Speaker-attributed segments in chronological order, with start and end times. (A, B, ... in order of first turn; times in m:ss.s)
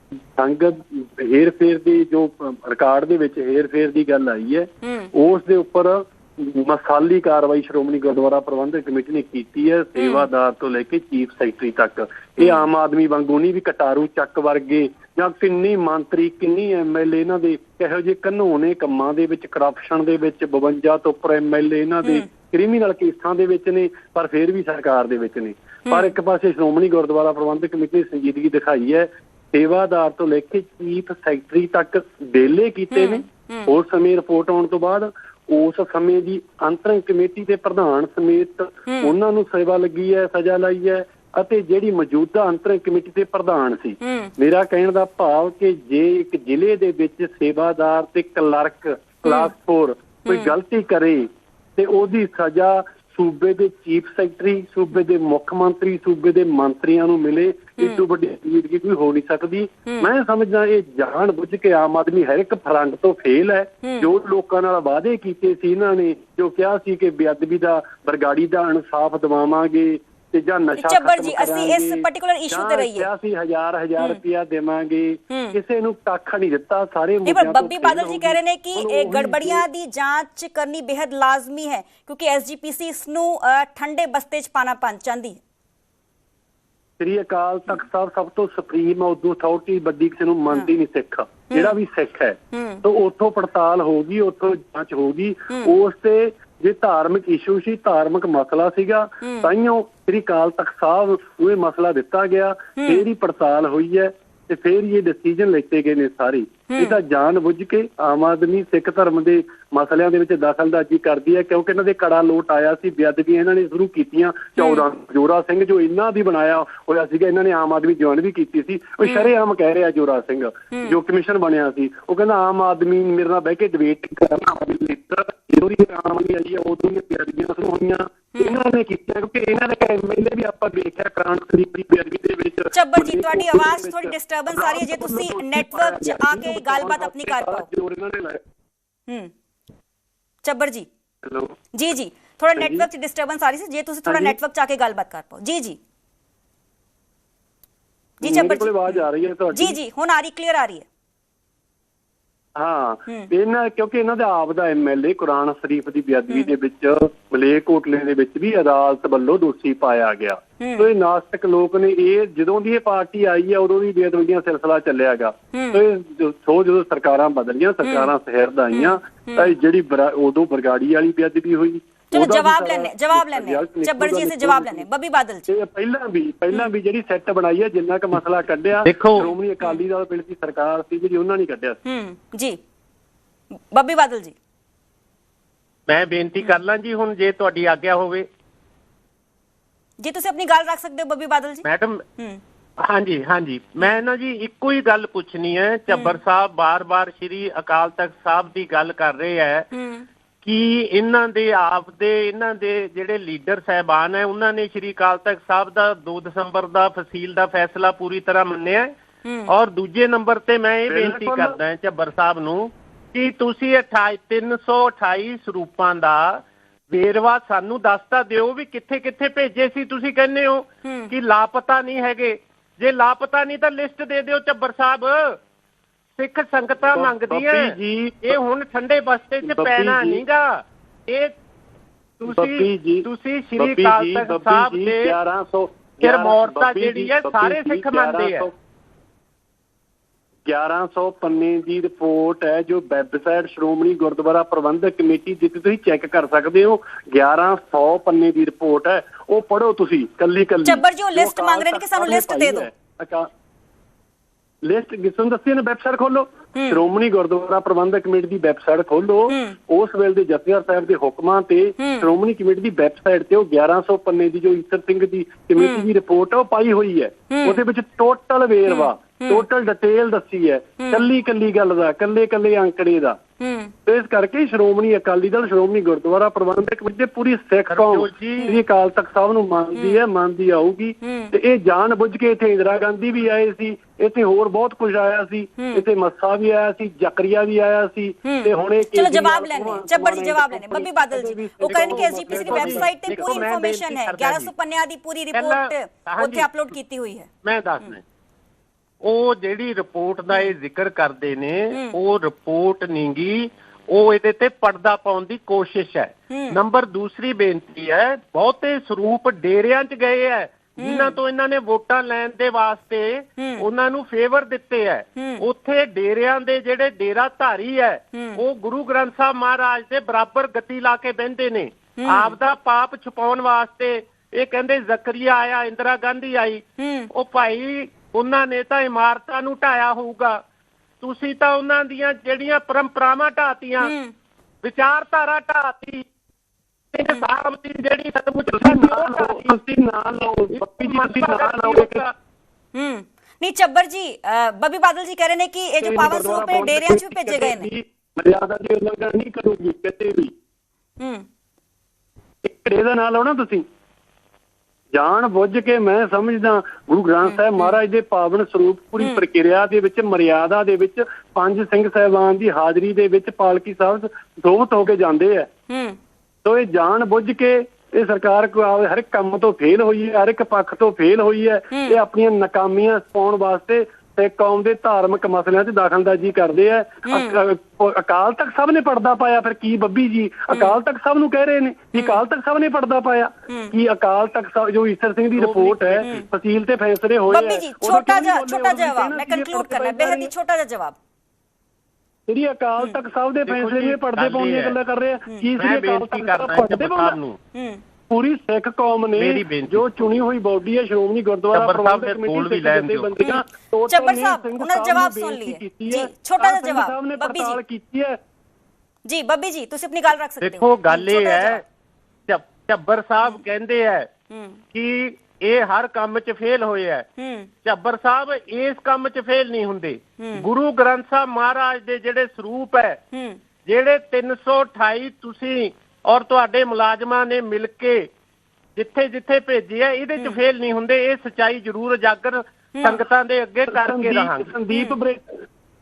0:00.4-1:19.6 A
0:04.8-0:05.1 B
0:10.0-0:10.3 B
0:12.4-0:12.6 B
0:25.9-0:26.1 B
0:32.9-0:33.7 B
0:38.9-0:39.1 B
0:44.0-0:44.3 B
0:49.2-0:49.5 B
0:50.3-0:50.5 B
1:10.8-1:13.1 B
1:15.3-1:15.6 B
1:17.2-1:25.4 B
1:27.0-2:18.4 A
1:32.5-1:32.8 B
1:39.2-1:39.5 B
1:42.8-1:43.0 B
1:46.7-1:47.0 B
1:54.6-1:54.8 B
2:12.7-2:17.7 B
2:20.4-2:20.9 B
2:21.2-2:21.5 A
2:21.7-2:25.8 B
2:22.6-2:22.9 A
2:24.1-2:24.4 A
2:28.2-2:30.8 B
2:28.2-2:29.8 A
2:32.6-2:54.9 A
2:40.6-2:40.9 B
2:45.5-2:45.8 B
2:47.8-2:48.1 B
2:48.7-2:49.5 B
2:52.1-2:55.5 B
2:55.5-3:01.8 A
2:58.9-2:59.3 C
3:01.8-3:02.6 B
3:03.7-3:04.4 B
3:05.9-3:08.3 C
3:10.0-3:11.6 B
3:11.6-3:12.0 C
3:12.8-3:19.7 C
3:15.9-3:16.2 B
3:19.7-3:20.1 B
3:20.4-3:28.9 C
3:29.2-3:29.5 B
3:29.5-3:45.4 C
3:30.9-3:31.6 A
3:40.8-3:41.1 B
3:46.2-3:47.7 C
3:46.9-3:48.4 A
3:48.2-3:51.4 C
3:49.4-3:50.2 A
3:52.2-3:55.1 C
3:52.3-3:58.5 A
3:56.0-3:58.5 C
4:00.5-4:13.3 A
4:10.6-4:12.7 B
4:14.6-4:33.2 A
4:16.6-4:16.8 B
4:19.3-4:19.6 B
4:21.8-4:22.1 B
4:25.6-4:25.9 B
4:27.3-4:27.6 B
4:28.7-4:29.4 B
4:30.8-4:31.1 B
4:33.4-4:33.7 B
4:33.9-4:53.5 A
4:37.7-4:38.5 C
4:39.8-4:40.0 B
4:41.0-4:41.3 B
4:45.6-4:45.8 B
4:48.2-4:57.3 B
4:51.7-4:54.5 C
4:55.3-4:56.5 C
4:57.4-4:58.0 C
4:59.0-5:30.4 C
5:06.3-5:06.6 B
5:10.8-5:11.2 B
5:13.4-5:13.6 B
5:15.2-5:15.4 B
5:18.1-5:18.4 B
5:22.0-5:22.4 B
5:26.8-5:27.1 B
5:31.0-5:33.9 C
5:33.8-5:34.1 B
5:34.6-5:36.1 C
5:36.9-5:39.5 C
5:38.5-5:42.1 A
5:40.5-5:42.1 C
5:42.7-5:47.7 B
5:45.8-5:50.3 A
5:51.0-5:51.3 B
5:52.4-5:53.6 A
5:54.9-6:05.5 A
6:05.7-6:06.0 B
6:06.4-6:30.3 A
6:11.7-6:12.0 B
6:17.1-6:17.4 B
6:20.5-6:20.8 B
6:22.0-6:22.2 B
6:25.4-6:26.1 C
6:27.3-6:31.0 B
6:32.3-6:37.2 A
6:33.5-6:34.8 C
6:35.6-6:37.4 C
6:37.5-6:37.8 B
6:38.1-6:48.2 A
6:39.2-6:39.9 C
6:41.5-6:43.3 C
6:43.2-6:47.6 B
6:49.1-6:51.6 B
6:50.4-6:51.6 C
6:52.3-6:54.1 C
6:54.3-6:54.6 B
6:54.7-6:57.1 C
6:57.2-6:57.5 B
6:57.6-7:03.0 C
7:00.2-7:00.4 B
7:03.1-7:03.4 B
7:03.7-7:08.1 C
7:08.8-7:14.5 C
7:12.8-7:13.0 B
7:13.7-7:15.4 A
7:14.7-7:15.0 B